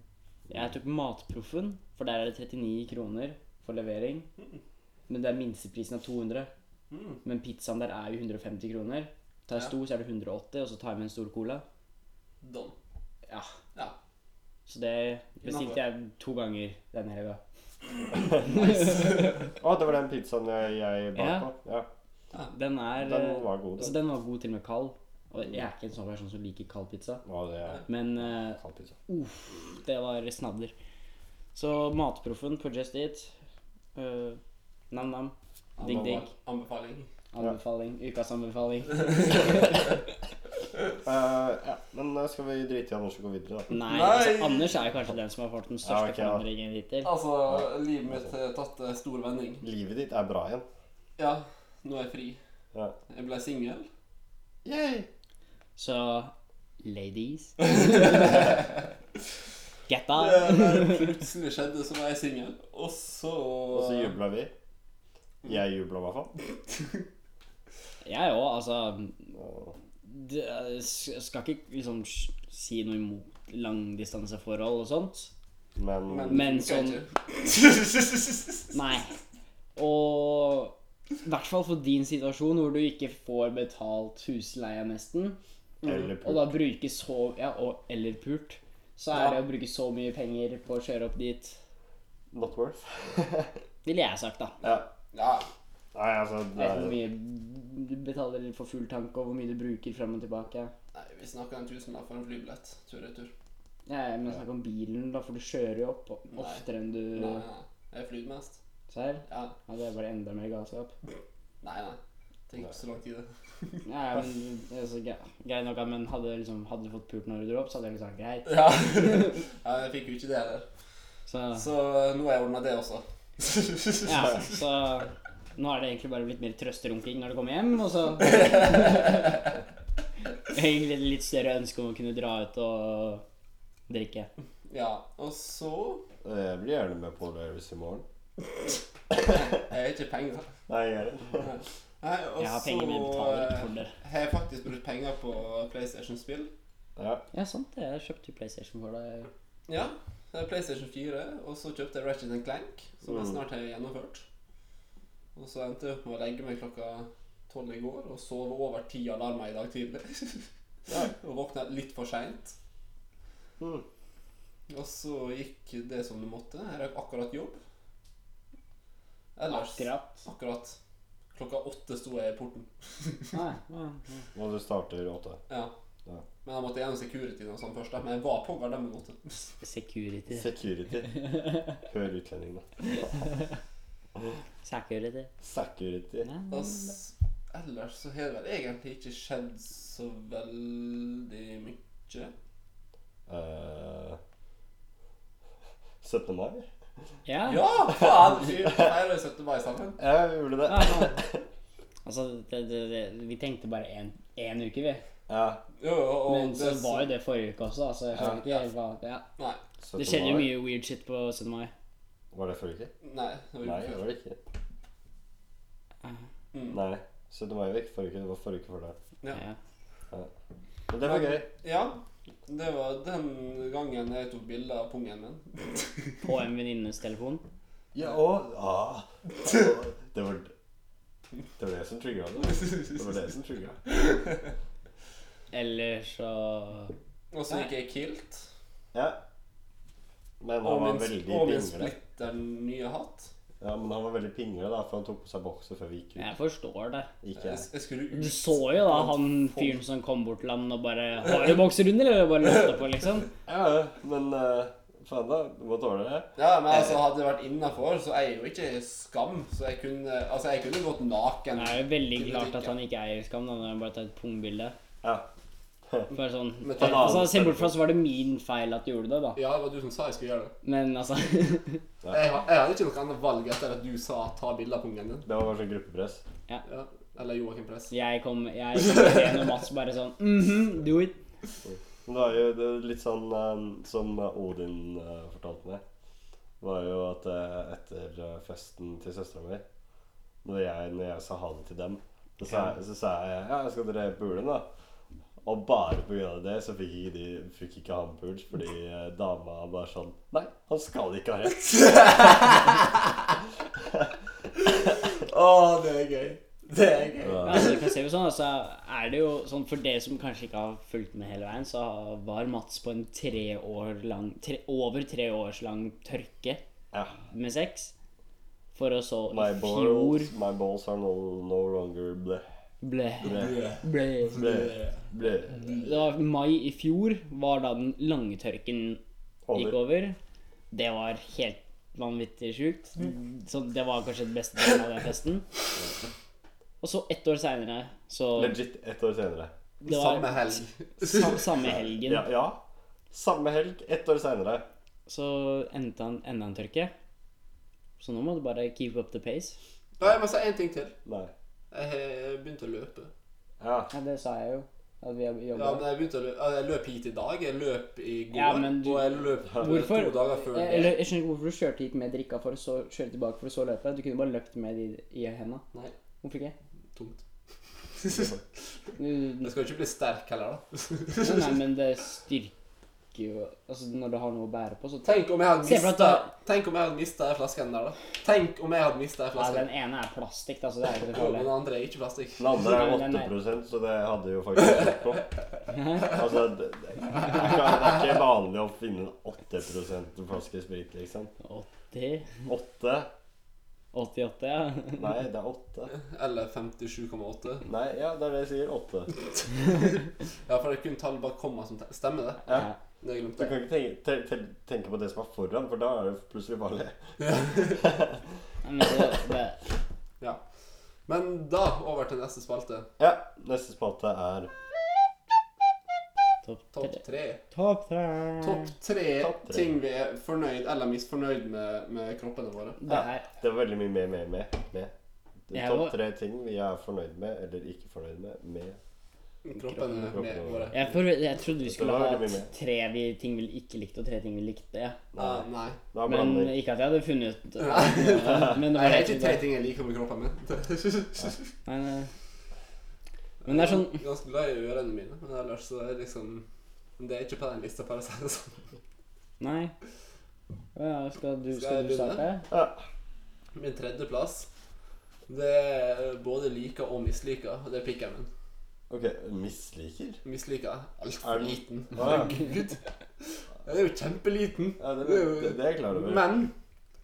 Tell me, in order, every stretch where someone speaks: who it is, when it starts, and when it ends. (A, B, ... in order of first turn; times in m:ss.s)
0:00.5-0:04.3 A
0:05.1-0:06.5 A
0:06.9-0:07.2 B
0:07.2-0:11.6 A
0:12.4-0:12.8 B
0:14.7-0:17.4 A
0:15.4-0:15.8 B
0:18.1-0:18.9 C
0:18.4-0:19.5 A
0:19.6-0:21.9 C
0:21.1-0:21.5 A
0:22.5-0:27.2 A
0:23.0-0:24.0 C
0:27.2-0:27.9 C
0:27.9-0:30.7 A
0:28.6-0:29.0 C
0:31.6-0:33.3 A
0:34.0-0:34.4 A
0:34.9-0:36.3 A
0:35.8-0:37.1 B
0:37.3-0:40.0 A
0:41.0-0:43.7 C
0:43.7-0:47.1 A
0:43.8-0:44.8 B
0:45.8-0:46.4 C
0:47.0-0:49.6 B
0:47.5-0:48.3 C
0:49.6-0:50.7 C
0:51.2-0:52.4 B
0:53.1-0:53.9 B
0:54.6-0:55.1 C
0:55.8-0:58.4 A
0:57.6-0:58.6 B
0:59.9-1:01.2 A
1:00.1-1:04.2 B
1:03.7-1:04.5 C
1:05.4-1:06.3 C
1:08.0-1:09.3 A
1:09.4-1:09.8 C
1:10.0-1:15.3 A
1:15.8-1:16.5 C
1:16.1-1:18.7 B
1:16.3-1:17.0 A
1:18.7-1:19.1 A
1:19.8-1:25.4 A
1:25.8-1:26.1 B
1:25.8-1:26.5 C
1:26.2-1:31.6 A
1:29.1-1:29.4 B
1:32.3-1:33.6 C
1:33.8-1:34.5 A
1:35.1-1:35.5 B
1:35.9-1:37.0 C
1:36.6-1:40.7 A
1:40.9-1:43.3 B
1:43.9-1:47.4 A
1:46.3-1:48.6 B
1:48.9-1:50.9 A
1:49.3-1:49.5 B
1:51.6-1:52.0 B
1:52.5-1:53.8 B
1:53.8-1:59.4 A
1:58.4-2:00.6 B
2:01.3-2:01.6 A
2:01.6-2:04.3 B
2:04.0-2:09.4 A
2:10.5-2:13.2 A
2:13.9-2:14.3 A
2:14.7-2:16.0 B
2:16.2-2:18.0 C
2:19.1-2:19.5 C
2:19.3-2:20.5 B
2:20.7-2:21.5 C
2:21.4-2:26.5 B
2:22.4-2:23.9 A
2:27.0-2:27.2 C
2:27.3-2:29.3 A
2:29.7-2:34.2 B
2:33.1-2:33.4 C
2:35.4-2:42.6 B
2:43.6-2:43.8 C
2:44.7-2:47.6 B
2:49.4-2:50.8 B
2:49.5-2:50.2 A
2:51.3-2:53.4 B
2:53.3-2:54.2 A
2:54.4-2:55.4 C
2:56.4-2:59.5 B
2:59.6-3:00.5 A
3:00.3-3:02.6 C
3:02.9-3:03.5 A
3:04.6-3:05.3 A
3:05.4-3:06.3 C
3:06.2-3:06.9 A
3:06.5-3:12.3 B
3:13.3-3:14.2 C
3:16.0-3:16.6 C
3:17.2-3:17.7 A
3:17.5-3:20.0 B
3:18.0-3:18.9 C
3:20.0-3:21.4 C
3:20.6-3:21.2 A
3:22.0-3:25.0 A
3:25.3-3:25.6 C
3:25.8-3:27.1 B
3:26.3-3:29.2 A
3:28.2-3:28.4 C
3:29.8-3:30.5 C
3:30.0-3:31.7 A
3:32.3-3:32.9 C
3:33.0-3:34.0 B
3:33.6-3:34.4 C
3:36.5-3:36.8 B
3:36.7-3:39.0 C
3:39.3-3:39.6 A
3:40.9-3:41.5 C
3:41.0-3:46.1 B
3:46.2-3:47.4 A
3:47.9-3:50.5 C
3:51.6-3:53.8 C
3:52.6-3:53.0 B
3:53.9-3:54.5 B
3:55.5-3:56.9 A
3:57.3-3:58.5 B
4:00.4-4:01.9 C
4:00.6-4:03.3 B
4:03.6-4:06.3 C
4:06.2-4:07.1 A
4:07.2-4:07.6 C
4:07.4-4:09.8 B
4:08.1-4:13.3 A
4:13.5-4:17.0 C
4:16.4-4:22.7 B
4:21.6-4:24.8 A
4:26.1-4:29.4 A
4:26.6-4:27.3 B
4:26.8-4:27.8 C
4:29.4-4:30.5 B
4:30.6-4:31.8 A
4:32.1-4:35.2 B
4:35.2-4:36.2 C
4:36.6-4:37.9 B
4:37.9-4:41.2 A
4:41.6-4:45.8 C
4:46.6-4:49.6 C
4:50.4-4:54.7 C
4:55.4-5:01.7 C
5:01.6-5:02.9 B
5:04.7-5:07.8 B
5:07.2-5:07.8 C
5:07.4-5:16.6 A
5:17.3-5:17.9 A
5:18.8-5:20.3 A
5:19.3-5:22.4 C
5:22.8-5:24.7 A
5:23.2-5:23.7 C
5:23.3-5:25.0 B
5:24.3-5:25.7 C
5:25.6-5:29.0 A
5:29.5-5:29.8 C
5:29.5-5:30.2 A
5:30.7-5:35.5 A
5:36.8-5:38.6 A
5:38.4-5:39.5 C
5:39.8-5:41.5 B
5:39.8-5:42.2 A
5:41.7-5:44.6 C
5:45.1-5:46.9 A
5:48.0-5:49.6 A
5:50.0-5:51.0 B
5:51.0-5:51.3 C
5:51.7-5:53.1 B
5:53.6-5:53.9 C
5:53.9-5:55.9 A
5:55.5-6:01.0 B
5:58.3-6:05.6 A
6:06.2-6:06.5 A
6:07.0-6:07.2 B
6:08.0-6:08.4 B
6:09.0-6:09.5 A
6:09.4-6:11.6 B
6:11.2-6:12.5 A
6:13.1-6:16.3 A
6:15.0-6:19.7 B
6:19.4-6:21.5 A
6:21.1-6:22.5 B
6:22.4-6:25.2 C
6:22.6-6:23.3 A
6:25.7-6:26.2 A
6:26.1-6:31.3 C
6:31.4-6:32.3 A
6:32.5-6:33.1 C
6:33.9-6:35.2 A
6:35.0-6:35.9 C
6:35.9-6:37.7 B
6:37.6-6:39.1 C
6:39.6-6:42.5 B
6:42.5-6:42.8 A
6:43.0-6:43.6 B
6:43.4-6:48.2 C
6:47.2-6:47.8 B
6:48.6-6:49.6 A
6:51.1-6:52.9 B
6:53.0-6:54.5 C
6:56.4-6:58.7 A
6:56.7-6:57.4 B
6:58.4-7:02.8 B
6:59.2-6:59.7 C
7:02.8-7:03.3 A
7:02.9-7:04.9 C
7:05.5-7:08.8 C
7:05.5-7:06.0 A
7:09.4-7:10.9 B
7:09.6-7:10.2 A
7:10.1-7:10.8 C
7:10.7-7:15.0 A
7:11.6-7:12.5 C
7:15.1-7:16.5 C
7:15.2-7:15.8 B
7:16.0-7:19.4 A
7:17.6-7:21.5 B
7:21.7-7:22.1 A
7:23.4-7:26.5 B
7:23.4-7:24.0 A
7:27.0-7:28.6 B
7:29.4-7:29.7 A
7:30.8-7:32.5 A
7:31.5-7:32.2 B
7:32.5-7:32.8 C
7:33.5-7:34.5 B
7:35.3-7:38.3 B
7:38.9-7:40.2 C
7:40.2-7:46.5 B
7:41.2-7:42.4 C
7:44.8-7:46.3 C